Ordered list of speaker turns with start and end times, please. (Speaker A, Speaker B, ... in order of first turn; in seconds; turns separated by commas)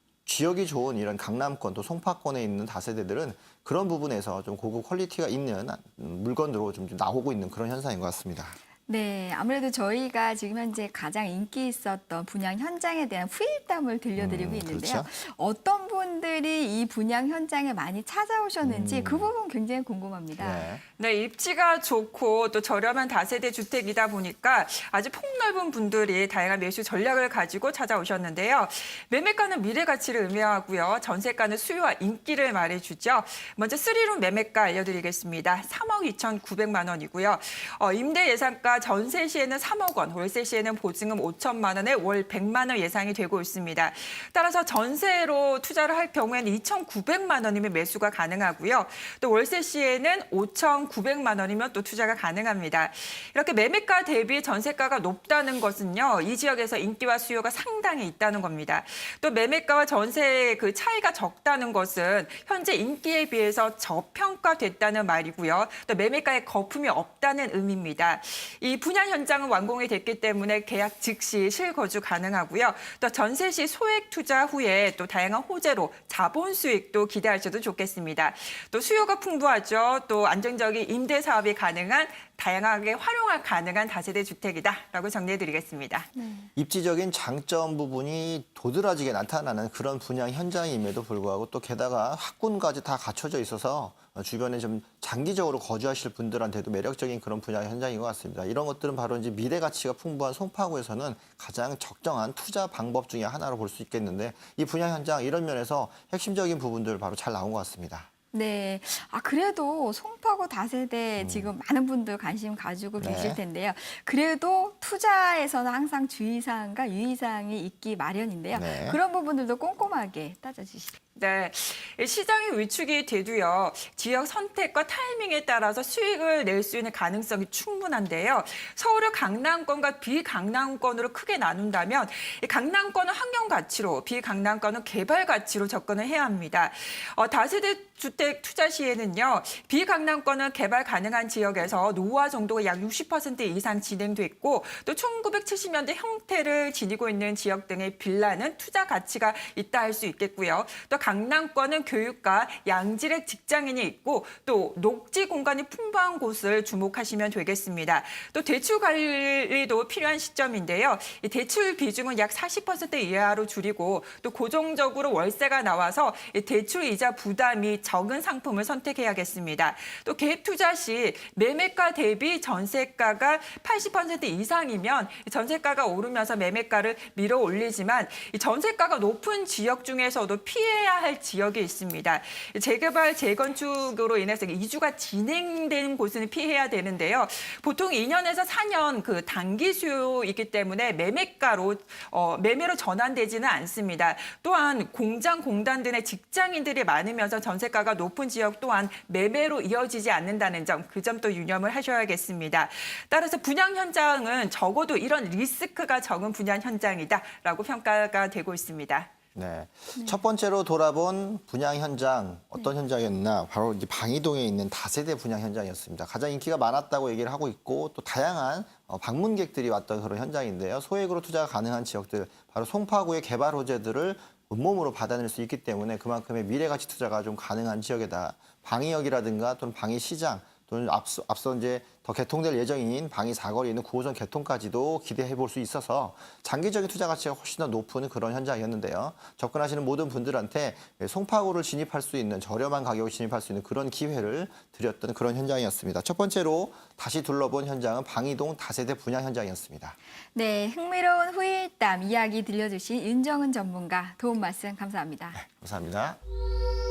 Speaker A: 0.2-8.6, Speaker B: 8.9-20.7, Speaker A: 14.2-15.1, Speaker A: 18.6-19.3, Speaker A: 20.4-20.8, Speaker C: 21.0-86.1, Speaker B: 86.1-86.5, Speaker A: 86.5-108.1, Speaker B: 108.3-121.0, Speaker A: 111.2-111.5, Speaker A: 113.0-113.4, Speaker A: 118.5-119.0, Speaker C: 121.2-209.1, Speaker A: 209.3-249.9, Speaker B: 250.3-255.4, Speaker A: 255.3-256.2